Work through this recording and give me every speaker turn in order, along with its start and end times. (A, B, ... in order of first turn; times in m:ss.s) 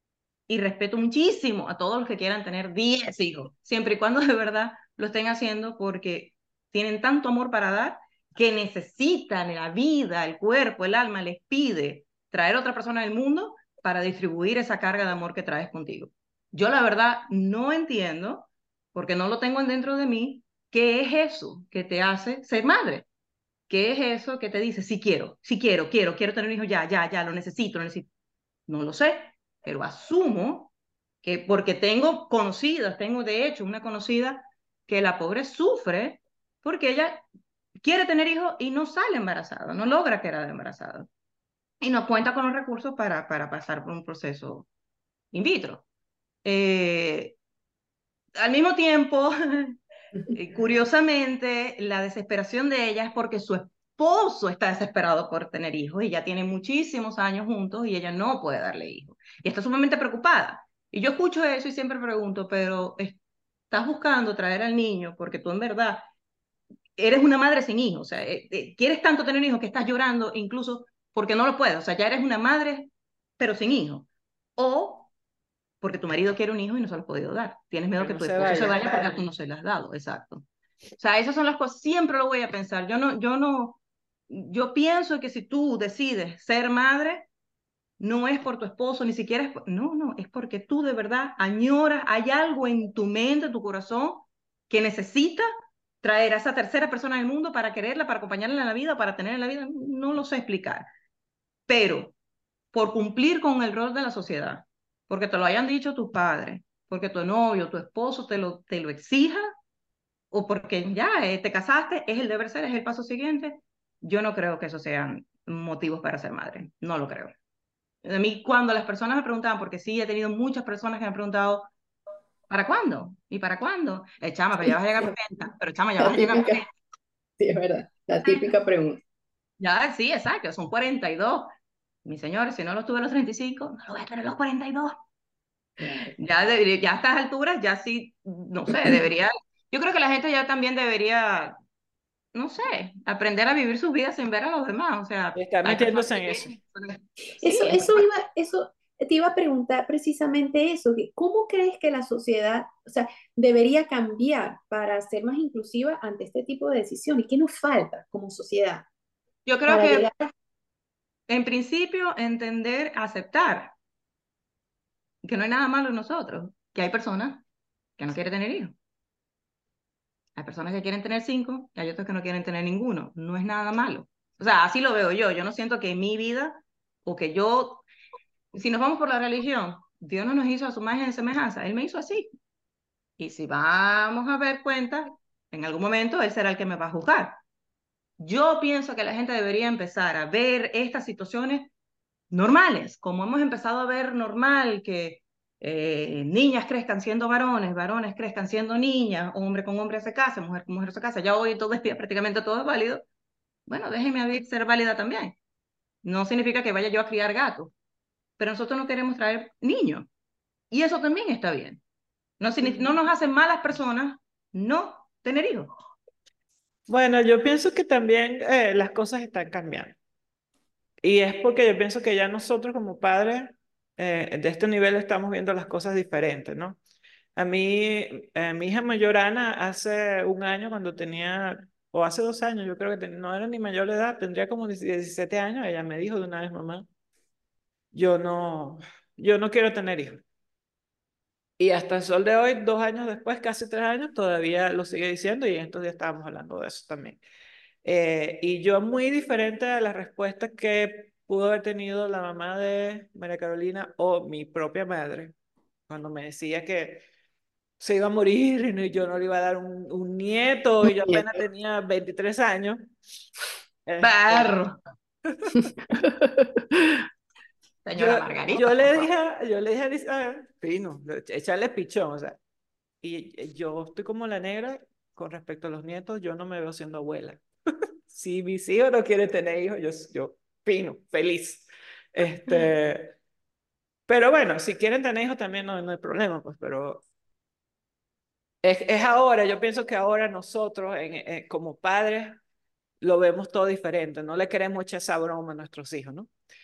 0:00.5-0:23.1 A
0:23.7-0:28.1 A
0:28.7-0:30.7 A
0:31.2-0:37.2 A
0:37.8-0:41.1 A
0:41.8-0:44.7 A
0:45.3-0:45.8 A
0:46.4-0:47.4 A
0:48.4-0:49.8 A
0:50.3-1:03.2 A
1:03.7-1:06.1 A
1:07.0-1:15.1 A
1:15.8-1:20.5 A
1:18.0-1:19.3 B
1:21.0-1:27.3 A
1:28.0-1:35.4 A
1:36.0-1:40.9 A
1:41.7-1:42.2 A
1:42.7-1:49.5 A
1:50.3-1:57.3 A
1:58.0-2:01.7 A
2:02.5-2:06.7 A
2:06.0-2:06.6 C
2:07.4-2:09.0 C
2:08.2-2:08.5 A
2:09.6-2:11.5 A
2:12.0-2:15.0 A
2:15.8-2:16.1 C
2:16.0-2:21.6 A
2:22.3-2:28.0 A
2:25.4-2:26.5 B
2:27.4-2:38.9 C
2:39.5-2:40.1 A
2:39.7-2:40.3 C
2:41.3-2:43.8 A
2:45.2-2:47.4 A
2:48.0-2:48.8 A
2:50.4-2:57.8 A
2:58.5-3:02.3 A
3:03.2-3:07.4 A
3:08.2-3:11.7 A
3:12.3-3:23.0 A
3:23.7-3:25.4 A
3:26.0-3:27.7 A
3:28.4-3:30.1 A
3:30.7-3:31.8 A
3:32.4-3:35.7 A
3:32.6-3:33.0 C
3:36.9-3:40.0 B
3:41.0-3:46.8 B
3:47.4-3:56.9 B
3:57.9-4:00.2 B
4:01.6-4:07.2 B
4:07.8-4:15.3 B
4:15.9-4:17.0 B
4:17.8-4:22.8 B
4:20.8-4:21.3 C
4:23.9-4:24.6 B
4:24.0-4:24.8 A
4:25.2-4:25.5 B
4:25.5-4:27.0 C
4:27.8-4:29.1 A
4:28.0-4:32.4 B
4:33.0-4:37.4 B
4:38.1-4:43.2 B
4:44.1-4:47.0 B
4:48.6-4:52.4 B
4:53.0-4:56.3 B